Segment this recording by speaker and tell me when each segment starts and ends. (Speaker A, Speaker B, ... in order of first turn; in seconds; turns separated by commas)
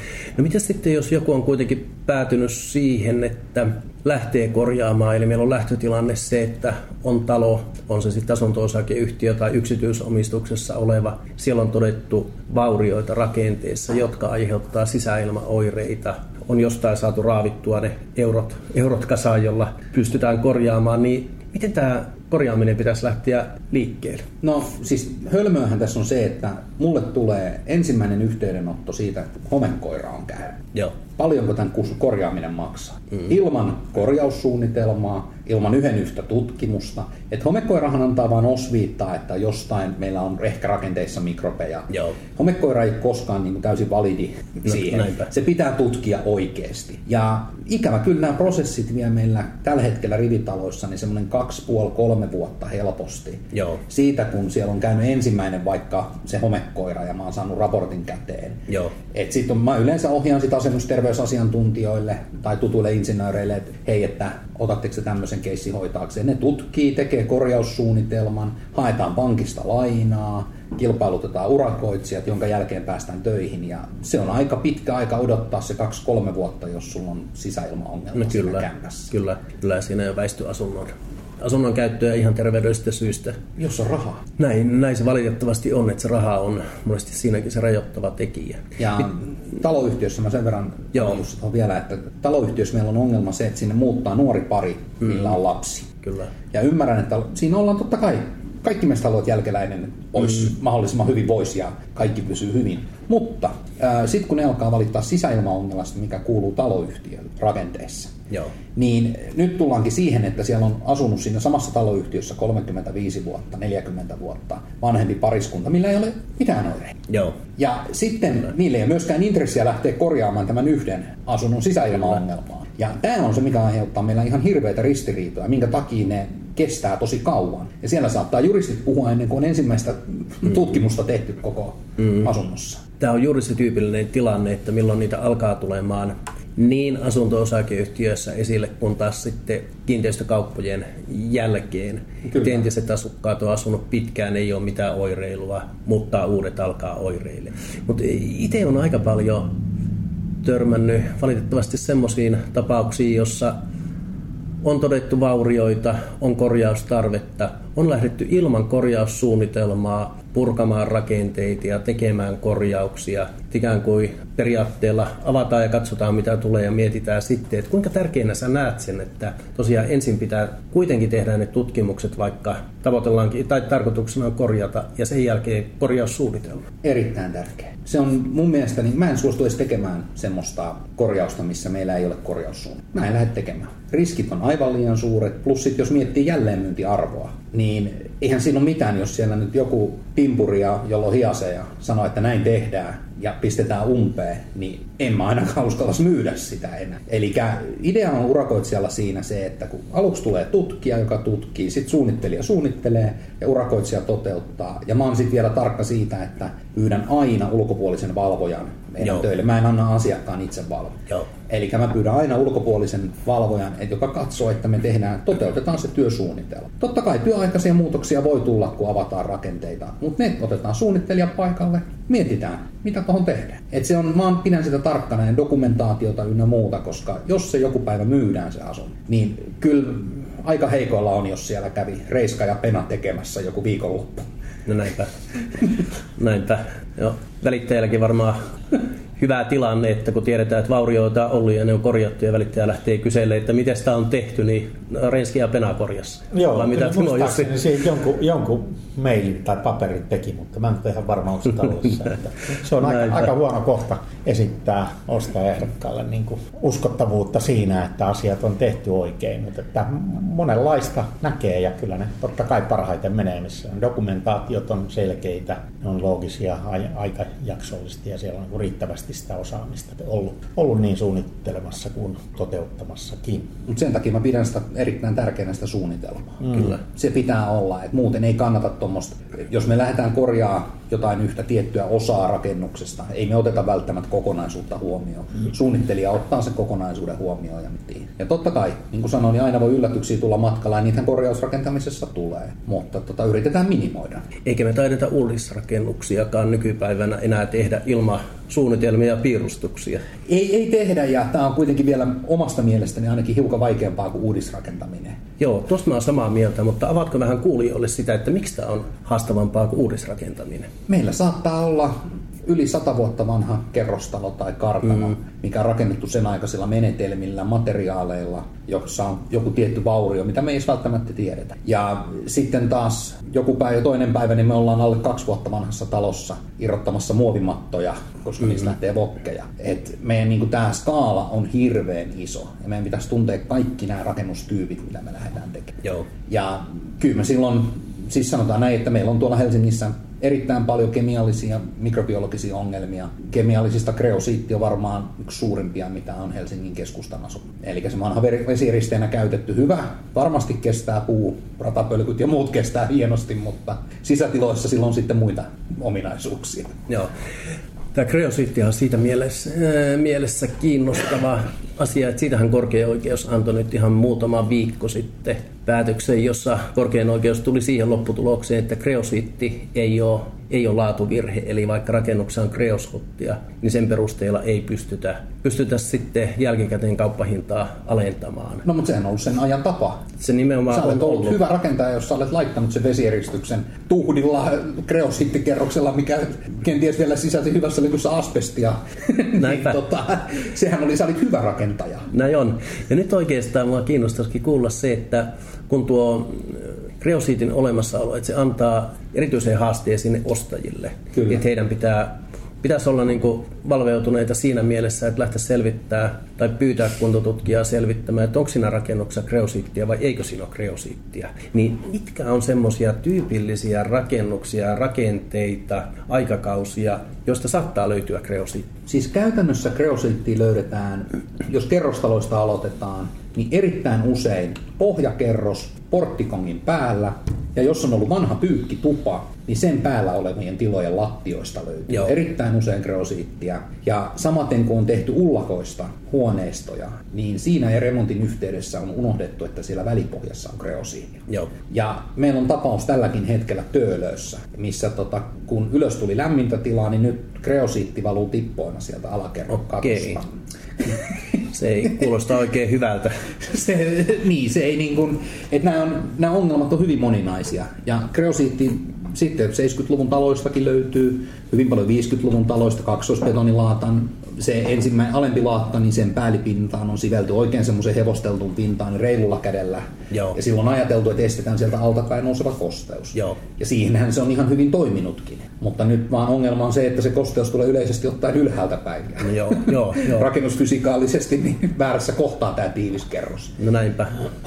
Speaker A: 0.4-24.3, Speaker B: 24.4-30.6, Speaker B: 31.1-79.1, Speaker A: 44.7-45.3, Speaker A: 53.5-53.8, Speaker A: 58.7-58.9, Speaker A: 78.2-83.4, Speaker B: 83.6-84.2, Speaker A: 84.4-88.8, Speaker B: 88.8-95.9, Speaker A: 96.0-96.3, Speaker B: 96.5-108.2, Speaker B: 108.8-117.0, Speaker A: 117.1-117.4, Speaker B: 117.5-132.8, Speaker A: 133.0-149.5, Speaker A: 150.4-153.6, Speaker A: 154.6-176.7, Speaker B: 176.8-211.0, Speaker B: 211.5-234.3, Speaker A: 234.7-235.1, Speaker A: 236.2-238.4, Speaker A: 239.2-247.5, Speaker C: 246.3-273.5, Speaker B: 273.7-294.3, Speaker A: 294.4-300.0, Speaker B: 300.3-305.2, Speaker A: 305.4-310.7, Speaker B: 310.9-356.8, Speaker A: 357.9-378.6, Speaker B: 378.6-380.1, Speaker A: 380.2-381.4, Speaker B: 380.7-392.1, Speaker A: 389.4-389.8, Speaker A: 392.1-418.7, Speaker B: 418.9-451.0, Speaker A: 449.8-450.2, Speaker A: 451.4-453.2, Speaker B: 453.4-483.6, Speaker A: 470.1-470.4, Speaker A: 479.2-480.3, Speaker A: 483.6-484.1